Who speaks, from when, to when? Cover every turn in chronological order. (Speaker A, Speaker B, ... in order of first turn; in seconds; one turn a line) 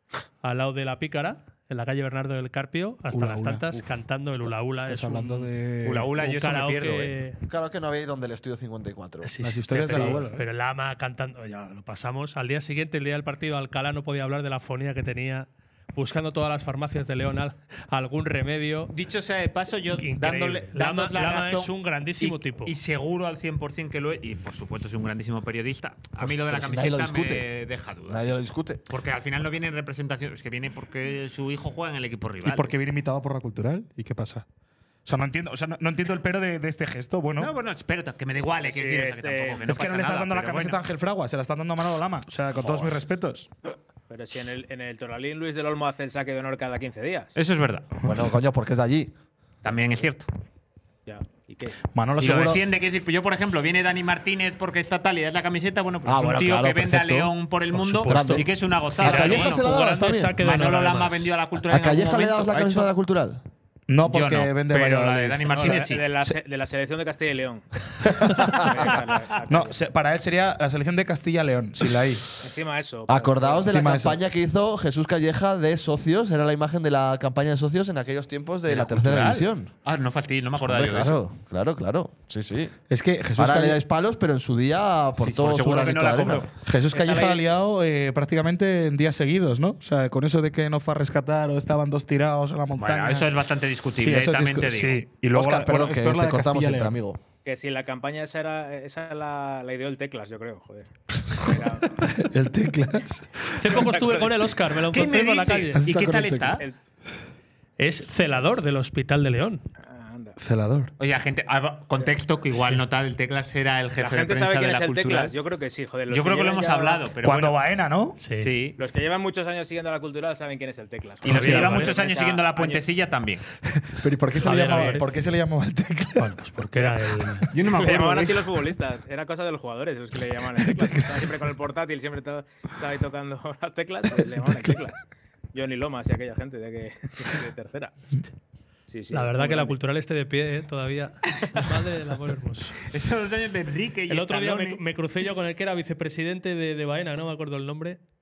Speaker A: 0.4-5.5
Speaker B: 3.1-6.1
Speaker C: 5.8-7.1
Speaker A: 6.2-7.4
Speaker D: 7.5-9.3
Speaker A: 9.2-18.9
Speaker B: 9.4-10.4
Speaker C: 18.9-28.4
Speaker A: 20.0-22.7
Speaker D: 26.2-27.5
Speaker D: 28.1-28.8
Speaker C: 28.9-32.7
Speaker B: 32.4-34.4
Speaker B: 35.0-37.5
Speaker C: 37.4-40.8
Speaker E: 38.6-39.7
Speaker B: 39.6-43.5
Speaker E: 42.6-42.9
Speaker E: 44.1-47.4
Speaker C: 47.3-47.9
Speaker D: 48.0-49.1
Speaker C: 49.6-50.3
Speaker E: 51.0-51.8
Speaker B: 51.9-52.6
Speaker C: 52.2-59.6
Speaker D: 56.0-57.3
Speaker A: 57.8-58.4
Speaker D: 58.0-58.5
Speaker D: 59.0-60.4
Speaker A: 59.0-61.3
Speaker C: 60.4-62.9
Speaker D: 61.6-63.4
Speaker B: 63.9-65.8
Speaker C: 64.1-66.1
Speaker E: 65.5-67.7
Speaker D: 68.0-68.7
Speaker E: 68.4-69.8
Speaker B: 69.5-72.3
Speaker E: 72.4-73.7
Speaker D: 73.1-79.7
Speaker B: 73.7-74.2
Speaker C: 78.7-81.2
Speaker D: 80.6-82.7
Speaker B: 82.9-83.8
Speaker D: 83.4-86.5
Speaker C: 85.2-86.5
Speaker B: 86.7-93.3
Speaker E: 86.9-87.5
Speaker C: 92.7-95.0
Speaker B: 94.0-97.0
Speaker D: 95.3-97.2
Speaker E: 97.4-102.0
Speaker B: 102.0-103.7
Speaker A: 103.5-105.8
Speaker E: 103.7-104.4
Speaker C: 104.9-106.6
Speaker B: 105.8-106.5
Speaker A: 107.8-109.6
Speaker E: 109.8-110.4
Speaker B: 110.4-110.9
Speaker C: 111.0-115.3
Speaker A: 112.5-112.8
Speaker E: 114.0-117.1
Speaker C: 116.1-117.6
Speaker B: 117.2-118.2
Speaker A: 118.2-118.5
Speaker C: 118.4-118.8
Speaker E: 118.8-122.8
Speaker C: 121.2-123.4
Speaker A: 121.2-121.9
Speaker B: 123.7-126.3
Speaker A: 124.4-125.1
Speaker E: 124.6-125.0
Speaker A: 126.2-127.5
Speaker C: 127.5-128.5
Speaker E: 127.7-137.9
Speaker B: 130.6-131.3
Speaker B: 134.4-134.8
Speaker E: 138.9-139.8
Speaker A: 139.1-142.8
Speaker C: 142.9-144.8
Speaker A: 144.1-148.0